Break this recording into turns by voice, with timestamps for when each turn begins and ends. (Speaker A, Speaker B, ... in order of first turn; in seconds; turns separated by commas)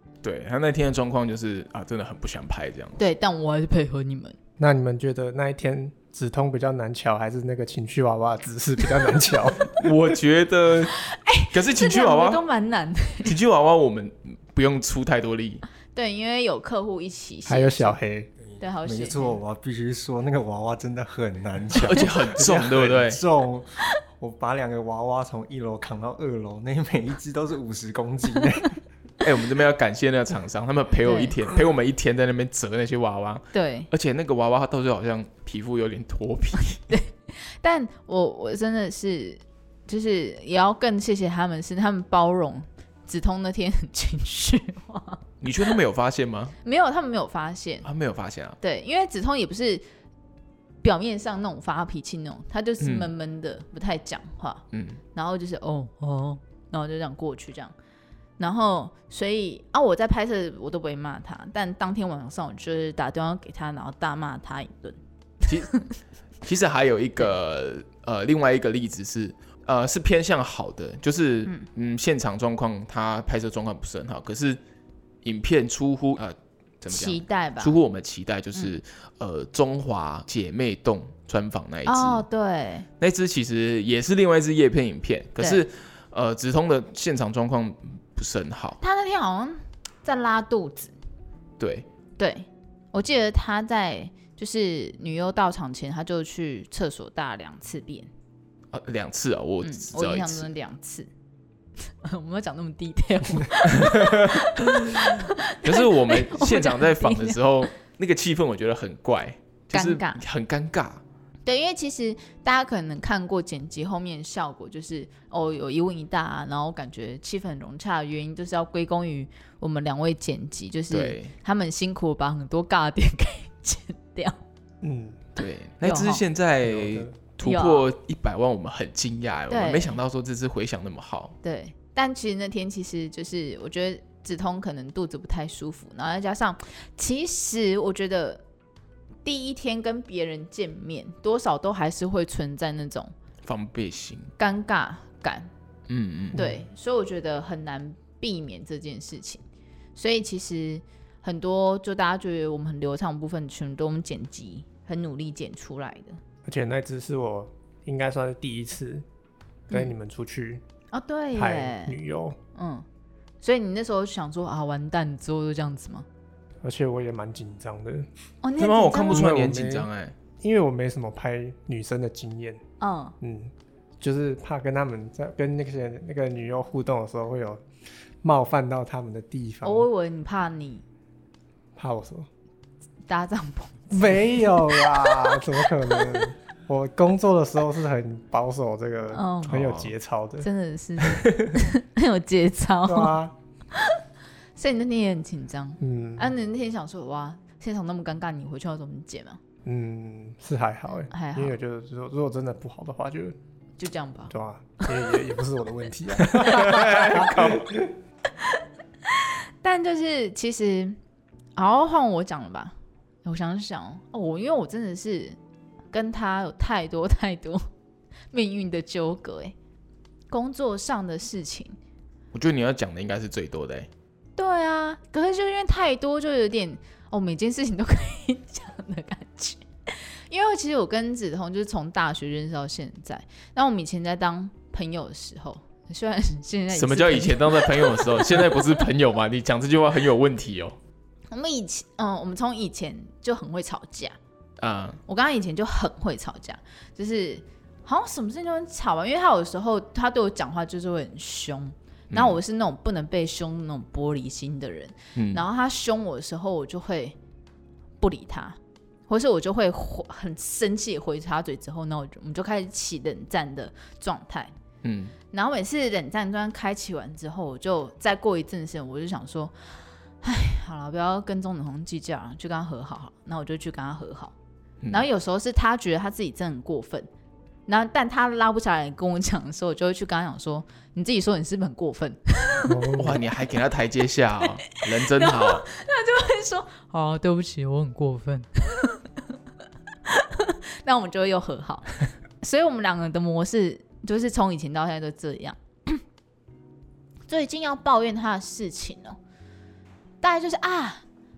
Speaker A: 0.2-3.0, Speaker B: 3.0-4.4, Speaker C: 4.6-9.8, Speaker A: 9.7-11.0, Speaker B: 11.0-13.3, Speaker A: 11.5-12.4, Speaker A: 13.2-15.7, Speaker B: 15.9-18.0, Speaker C: 17.5-18.3, Speaker D: 18.4-28.8, Speaker B: 18.6-19.4, Speaker A: 21.8-23.2, Speaker A: 29.2-36.9, Speaker B: 31.0-31.4, Speaker B: 33.5-33.9, Speaker B: 36.9-45.7, Speaker A: 45.4-46.5, Speaker B: 46.6-47.9, Speaker A: 47.8-48.6, Speaker B: 48.6-49.8, Speaker B: 50.8-57.7, Speaker A: 52.8-53.1, Speaker A: 54.7-55.0, Speaker B: 58.4-65.0, Speaker A: 65.5-65.7, Speaker B: 65.5-65.8, Speaker A: 66.4-74.6, Speaker A: 75.2-82.2, Speaker B: 76.9-77.8, Speaker B: 81.9-82.9, Speaker A: 83.0-88.8, Speaker B: 88.8-90.9, Speaker A: 91.6-91.9, Speaker B: 92.2-98.1, Speaker A: 98.7-100.5, Speaker B: 99.6-101.1, Speaker B: 101.8-107.4, Speaker A: 103.8-105.1, Speaker A: 105.6-111.0, Speaker B: 109.7-110.2, Speaker B: 111.5-124.4, Speaker A: 120.9-121.3, Speaker C: 124.8-125.2, Speaker A: 125.4-131.3, Speaker B: 125.8-126.2, Speaker C: 126.6-127.1, Speaker B: 127.4-127.9, Speaker B: 129.5-130.0, Speaker B: 131.4-138.4, Speaker B: 139.2-143.1, Speaker A: 143.4-144.3, Speaker B: 144.4-145.5, Speaker A: 145.9-146.5, Speaker B: 146.3-149.4, Speaker B: 150.0-156.2, Speaker C: 156.5-159.1, Speaker C: 159.7-160.6, Speaker B: 160.9-161.9, Speaker C: 161.3-162.4, Speaker B: 162.6-162.8, Speaker B: 163.4-166.1, Speaker C: 166.6-168.1, Speaker B: 168.4-169.3, Speaker A: 168.6-170.2, Speaker C: 169.1-169.9, Speaker C: 170.4-172.6, Speaker B: 172.8-173.2, Speaker C: 173.2-177.6, Speaker C: 178.2-179.9, Speaker B: 179.6-180.8, Speaker C: 181.8-182.3, Speaker B: 183.1-186.3, Speaker C: 183.9-190.5, Speaker B: 189.1-189.6, Speaker A: 189.5-189.9, Speaker B: 190.4-193.2, Speaker A: 191.0-191.6, Speaker C: 192.9-193.3, Speaker B: 194.6-199.4, Speaker C: 195.8-196.3, Speaker C: 199.7-203.4, Speaker B: 201.1-201.6, Speaker B: 203.8-204.3, Speaker C: 204.3-207.9, Speaker A: 206.3-207.7, Speaker B: 209.1-211.0, Speaker B: 211.6-215.4, Speaker B: 215.9-217.6, Speaker B: 218.3-219.6, Speaker B: 220.3-221.8, Speaker A: 222.3-223.9, Speaker B: 224.4-238.6, Speaker A: 236.7-240.8, Speaker B: 241.3-244.2, Speaker A: 244.6-245.0, Speaker B: 245.1-257.2, Speaker A: 252.1-252.4, Speaker A: 255.2-255.4, Speaker B: 258.0-264.5, Speaker A: 264.8-265.1, Speaker B: 265.3-269.5, Speaker B: 270.2-274.3, Speaker B: 274.9-277.1, Speaker B: 277.7-282.9, Speaker C: 282.7-283.2, Speaker A: 282.9-285.7, Speaker B: 284.6-289.2, Speaker B: 290.1-296.0, Speaker B: 297.3-299.2, Speaker B: 300.2-301.0